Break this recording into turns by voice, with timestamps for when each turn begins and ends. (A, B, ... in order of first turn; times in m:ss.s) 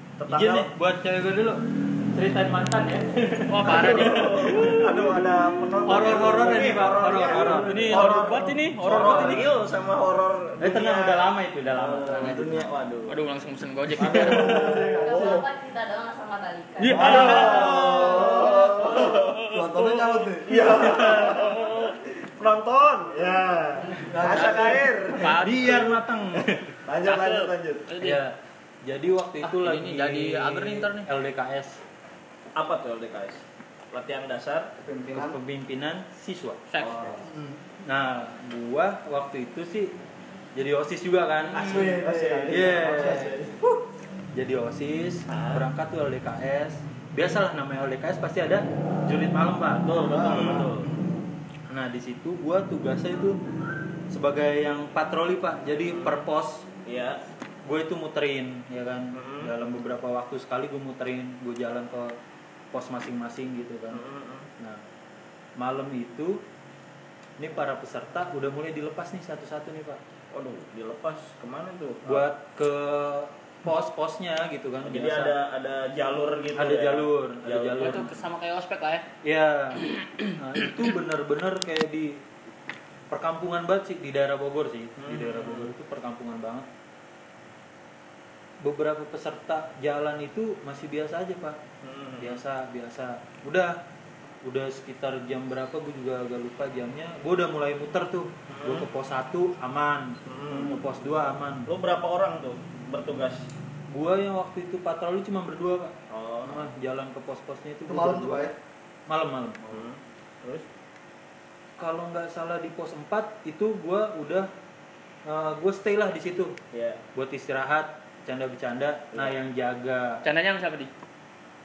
0:00.2-0:00.7 A
0:00.3-0:04.8 B
0:03.5-0:05.7 C
0:03.6-0:13.2 A
0:05.8-0:08.1 B
0:07.0-0:09.3 D
0:07.6-0:09.5 C
0:09.0-0:09.4 B
0:10.6-0:12.7 B
0:13.1-0:14.7 C
0:14.0-0:15.4 D
0:14.0-0:15.4 A
0:15.0-0:17.0 E
0:16.8-0:21.9 C
0:16.9-0:20.8 D
0:16.9-0:19.4 A
0:17.0-0:18.3 B
0:20.4-0:25.9 A
0:24.0-0:25.4 D
0:24.2-0:25.8 C
0:25.4-0:26.7 B
0:26.9-0:27.9 A
0:27.0-0:28.2 C
0:28.0-0:31.8 B
0:29.4-0:31.1 C
0:32.6-0:34.7 A
0:34.8-0:35.4 D
0:35.1-0:36.6 B
0:36.7-0:37.0 C
0:36.8-0:37.2 A
0:37.2-0:37.4 D
0:37.8-0:39.9 B
0:40.5-0:41.9 B
0:41.5-0:43.6 A
0:41.7-0:43.3 D
0:42.5-0:43.3 B
0:44.3-0:50.7 B
0:45.3-0:45.6 A
0:49.8-0:50.9 A
0:51.7-0:53.4 B
0:54.1-0:56.7 B
0:55.9-0:56.2 A
0:56.8-0:57.2 A
0:57.6-1:02.1 B
0:59.1-0:59.5 A
1:02.7-1:04.0 B
1:03.9-1:04.5 A
1:05.6-1:06.4 B
1:07.4-1:10.0 B
1:10.3-1:12.2 A
1:12.0-1:15.3 B
1:14.8-1:18.1 A
1:16.6-1:18.1 B
1:17.8-1:19.0 C
1:19.2-1:22.2 B
1:23.1-1:26.7 B
1:25.0-1:25.7 A
1:28.6-1:31.6 B
1:31.8-1:32.4 A
1:32.2-1:33.8 B
1:34.4-1:41.7 B
1:38.5-1:38.9 A
1:40.3-1:40.8 A
1:41.7-1:43.5 A
1:43.9-1:48.4 B
1:46.1-1:46.7 A
1:47.8-1:48.6 D
1:49.1-1:49.6 B
1:49.7-1:50.6 A
1:51.8-1:54.5 B
1:55.2-1:56.6 B
1:56.7-1:57.0 A
1:57.1-2:00.2 B
2:00.2-2:00.9 C